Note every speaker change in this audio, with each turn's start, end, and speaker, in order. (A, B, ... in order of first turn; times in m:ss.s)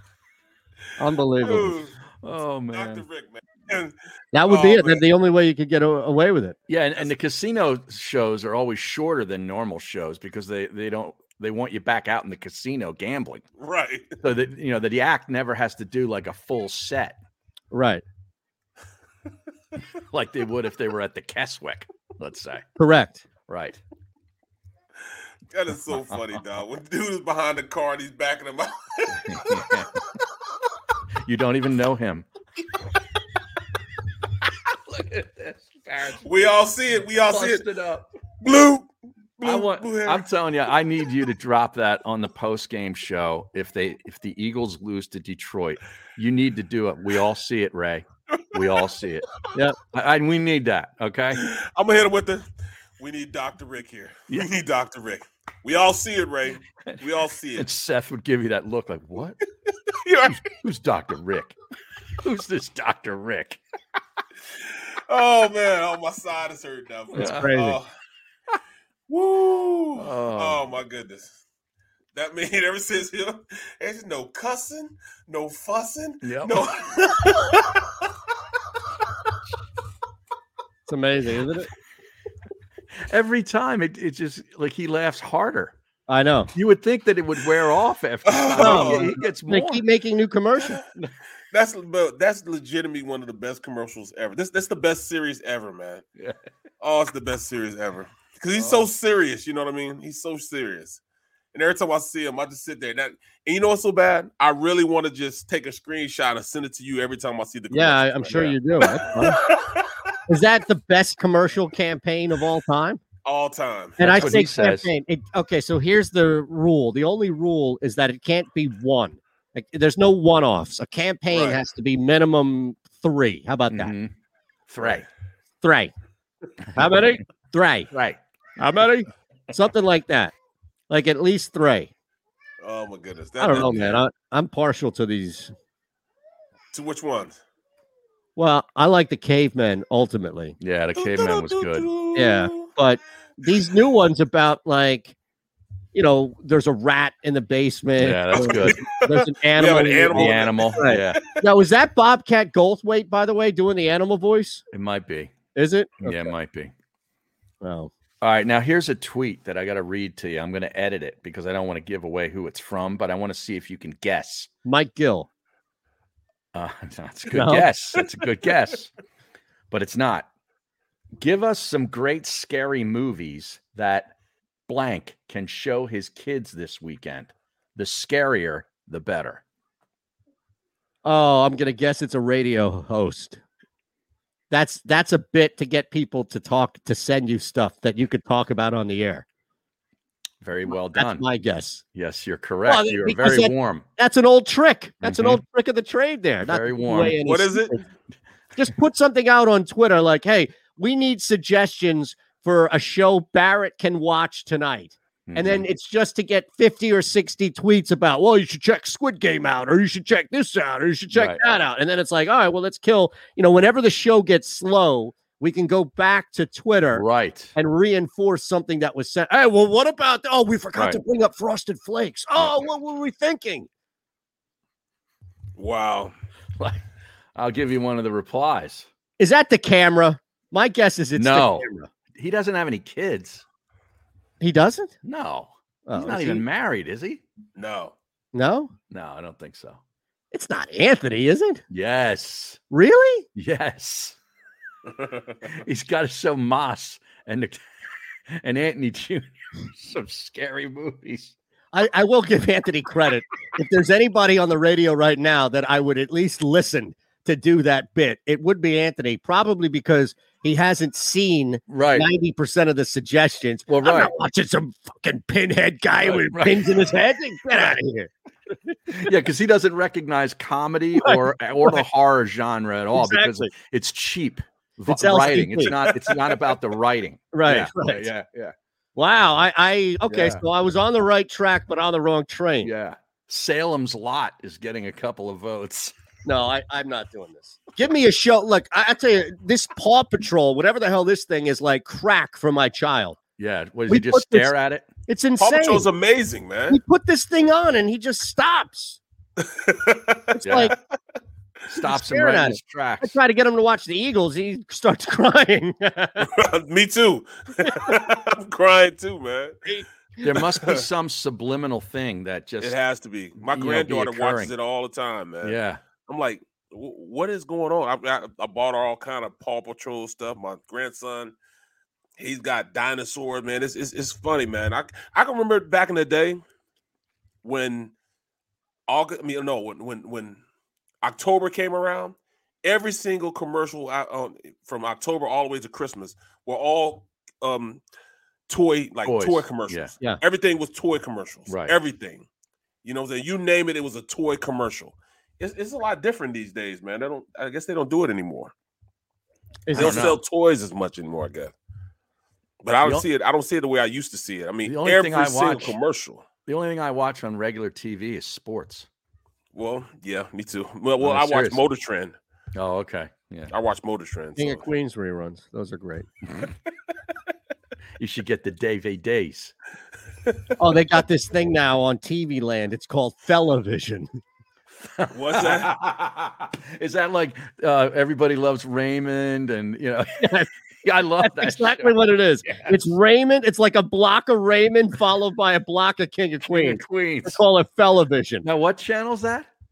0:01.0-0:01.8 A
0:01.4-0:02.0 B
0:02.2-0:03.0 C
0:02.7-0:03.9 B
0:04.3-0:06.6 A
0:04.5-0:05.0 B
0:06.7-0:13.4 C
0:13.6-0:14.2 B
0:14.2-0:17.2 C
0:17.7-0:18.0 A
0:20.1-0:22.6 C
0:22.8-0:23.2 A
0:23.5-0:23.8 C
0:25.5-0:29.6 B
0:29.1-0:30.0 C
0:31.2-0:32.3 C
0:34.8-0:36.5 C
0:36.2-0:37.6 B
0:37.3-0:38.1 C
0:38.4-0:38.9 B
0:39.4-0:40.2 B
0:39.4-0:49.3 C
0:49.8-0:51.5 C
0:51.3-0:52.4 B
0:53.0-0:57.7 B
0:57.6-0:59.4 C
1:00.0-1:00.4 B
1:00.5-1:01.5 C
1:02.2-1:03.6 C
1:04.7-1:07.9 B
1:07.1-1:07.5 C
1:07.2-1:07.8 A
1:09.1-1:11.4 B
1:10.0-1:10.6 C
1:12.1-1:17.9 B
1:16.2-1:16.6 C
1:20.9-1:21.7 A
1:23.1-1:25.7 C
1:26.1-1:26.5 A
1:26.5-1:29.8 C
1:28.2-1:29.1 B
1:28.6-1:30.8 A
1:31.5-1:36.0 B
1:36.8-1:41.0 B
1:38.6-1:38.9 C
1:41.5-1:49.9 B
1:47.7-1:49.4 A
1:50.3-1:53.0 A
1:53.2-1:54.0 B
1:54.0-2:03.9 A
1:54.0-1:54.9 C
2:01.3-2:01.6 B
2:03.7-2:04.1 C
2:04.7-2:05.0 C
2:05.6-2:05.9 A
2:06.7-2:07.1 C
2:06.8-2:07.9 A
2:07.9-2:08.2 C
2:08.6-2:10.3 A
2:10.9-2:11.9 A
2:12.6-2:14.0 B
2:13.4-2:15.5 A
2:13.5-2:13.9 C
2:16.7-2:17.4 B
2:18.4-2:20.6 A
2:20.6-2:21.9 C
2:21.0-2:22.7 B
2:22.1-2:25.1 A
2:25.9-2:34.6 A
2:28.0-2:28.8 C
2:28.3-2:31.2 B
2:30.1-2:31.2 C
2:34.7-2:35.3 C
2:35.5-2:36.3 A
2:36.0-2:36.7 C
2:37.6-2:37.9 A
2:38.2-2:44.5 C
2:44.6-2:45.3 A
2:46.5-2:48.9 C
2:47.3-2:47.7 A
2:49.7-2:50.3 C
2:51.2-2:54.1 C
2:54.7-2:59.4 C
3:01.0-3:03.4 A
3:04.5-3:09.2 A
3:10.4-3:11.2 C
3:10.7-3:11.8 A
3:11.9-3:13.8 C
3:12.6-3:17.8 A
3:15.0-3:15.4 C
3:16.4-3:17.2 C
3:17.2-3:17.8 B
3:18.6-3:43.7 A
3:25.3-3:25.6 C
3:31.1-3:31.4 C
3:36.9-3:37.5 C
3:40.7-3:41.0 C
3:45.6-3:46.1 B
3:46.6-3:46.8 C
3:47.3-3:48.9 C
3:49.2-3:51.9 A
3:51.2-3:53.4 C
3:54.4-3:54.9 A
3:55.0-3:57.2 C
3:55.9-3:56.4 A
3:57.6-3:57.9 B
3:58.3-3:58.7 A
3:58.9-3:59.8 C
4:00.3-4:01.6 A
4:01.7-4:02.6 C
4:02.7-4:03.2 A
4:03.4-4:04.2 C
4:05.4-4:07.6 C
4:08.3-4:11.3 C
4:11.7-4:28.1 A
4:21.7-4:22.1 C
4:23.7-4:24.1 C
4:26.0-4:26.9 C
4:28.9-4:38.5 C
4:31.0-4:31.8 A
4:32.9-4:33.5 A
4:34.9-4:35.8 A
4:35.8-4:36.4 B
4:37.3-4:38.1 A
4:39.0-4:42.7 A
4:40.1-4:40.4 C
4:42.6-4:45.9 C
4:46.2-4:53.2 A
4:53.4-4:54.9 C
4:53.9-4:54.5 A
4:55.1-4:55.8 A
4:55.4-4:56.8 B
4:56.7-4:59.0 A
4:59.5-5:00.2 B
5:00.3-5:00.7 A
5:00.4-5:00.7 C
5:01.7-5:03.2 C
5:01.8-5:06.3 A
5:06.2-5:09.6 B
5:10.2-5:12.8 C
5:10.3-5:10.8 B
5:12.6-5:21.3 B
5:13.4-5:14.5 C
5:15.4-5:15.8 C
5:22.2-5:26.4 B
5:27.4-5:27.9 B
5:28.9-5:30.4 B
5:31.0-5:37.8 B
5:38.5-5:42.2 B
5:39.0-5:39.9 C
5:41.5-5:41.7 C
5:42.8-5:48.5 B
5:49.7-5:50.2 A
5:49.7-5:51.5 B
5:49.7-5:50.2 C
5:52.6-5:56.2 B
5:54.6-5:55.8 C
5:56.4-5:58.9 C
5:59.5-6:02.1 B
6:01.0-6:01.6 C
6:02.5-6:03.5 C
6:03.5-6:04.6 B
6:04.4-6:06.1 A
6:08.0-6:09.5 C
6:10.6-6:14.2 A
6:14.8-6:22.9 C
6:15.1-6:15.8 B
6:20.2-6:20.5 A
6:21.2-6:28.4 A
6:26.5-6:27.4 C
6:28.4-6:29.5 C